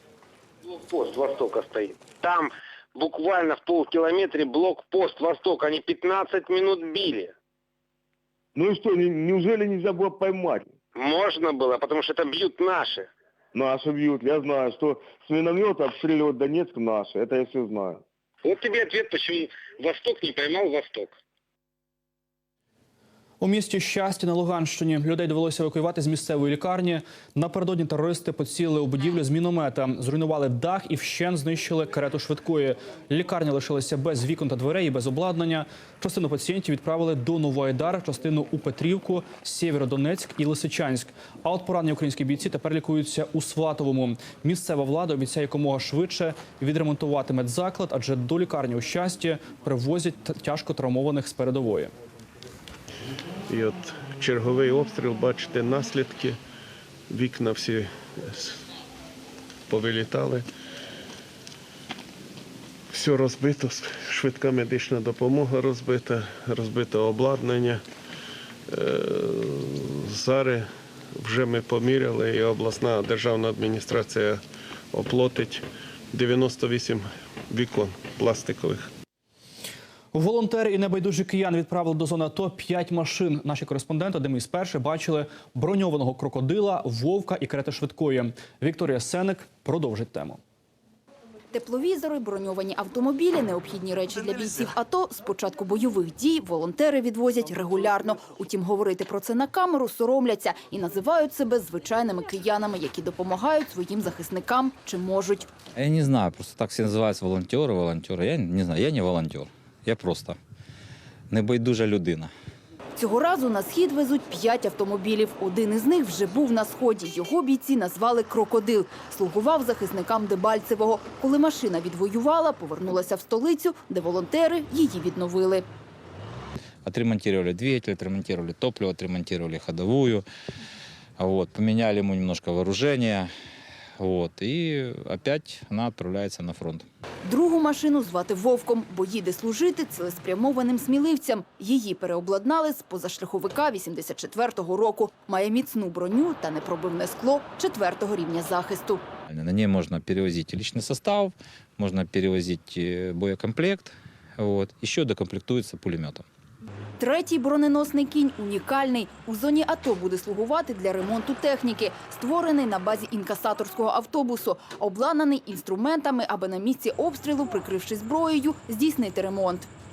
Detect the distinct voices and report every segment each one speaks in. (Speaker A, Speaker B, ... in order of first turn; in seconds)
Speaker A: 0.6-7.3, 10.9-13.1, 18.4-21.1
Speaker B: 8.5-10.7, 13.5-18.0
Speaker C: 23.4-51.9, 80.1-90.4
Speaker D: 53.5-56.4, 57.1-58.6, 59.7-60.5, 62.9-67.8, 68.7-78.9
Speaker E: 91.5-105.5, 113.0-125.7, 137.2-149.0, 157.0-169.7
Speaker F: 105.8-110.4, 111.3-112.3, 126.8-130.2, 131.2-133.3, 134.0-136.9, 149.3-156.2